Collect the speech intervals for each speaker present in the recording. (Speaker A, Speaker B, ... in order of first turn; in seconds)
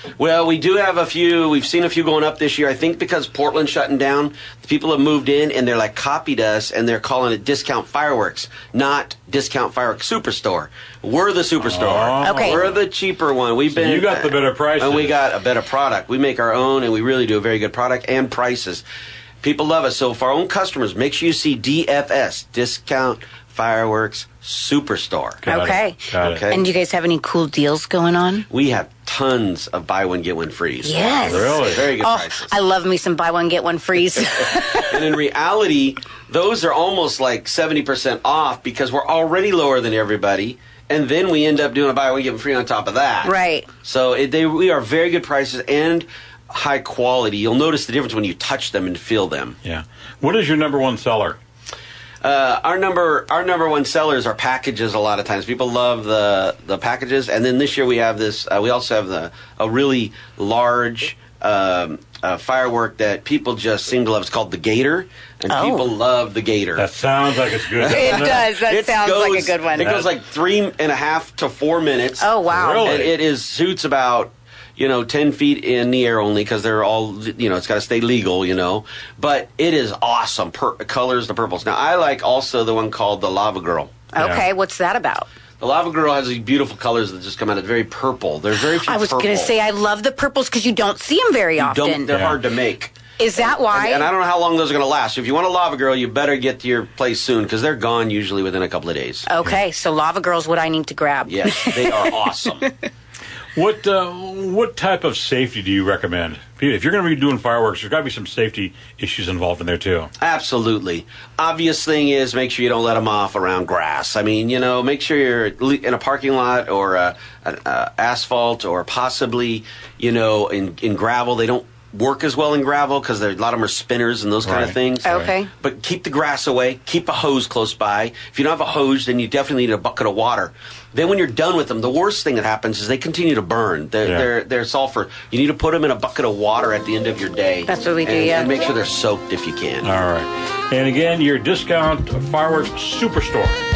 Speaker A: 0.2-18.8, 19.4-25.4, 26.2-26.7, 28.5-32.5, 34.8-49.5, 52.2-66.8, 67.7-83.9, 85.6-89.5, 91.6-99.3, 101.2-102.7, 110.2-139.9
Speaker B: 11.6-12.8, 13.7-15.1, 25.4-26.4, 31.3-31.9, 49.6-51.4, 66.8-68.5, 69.8-70.1, 72.5-73.1, 84.2-84.4, 92.1-92.4, 103.5-110.1, 124.4-124.8, 139.8-143.6
Speaker C: 12.2-12.6, 25.4-28.5, 30.8-35.0, 43.2-43.7, 65.5-65.9, 67.9-69.9, 72.2-72.8, 84.1-85.3, 88.8-92.1, 93.2-94.1, 99.3-102.1, 125.0-125.5, 137.7-138.5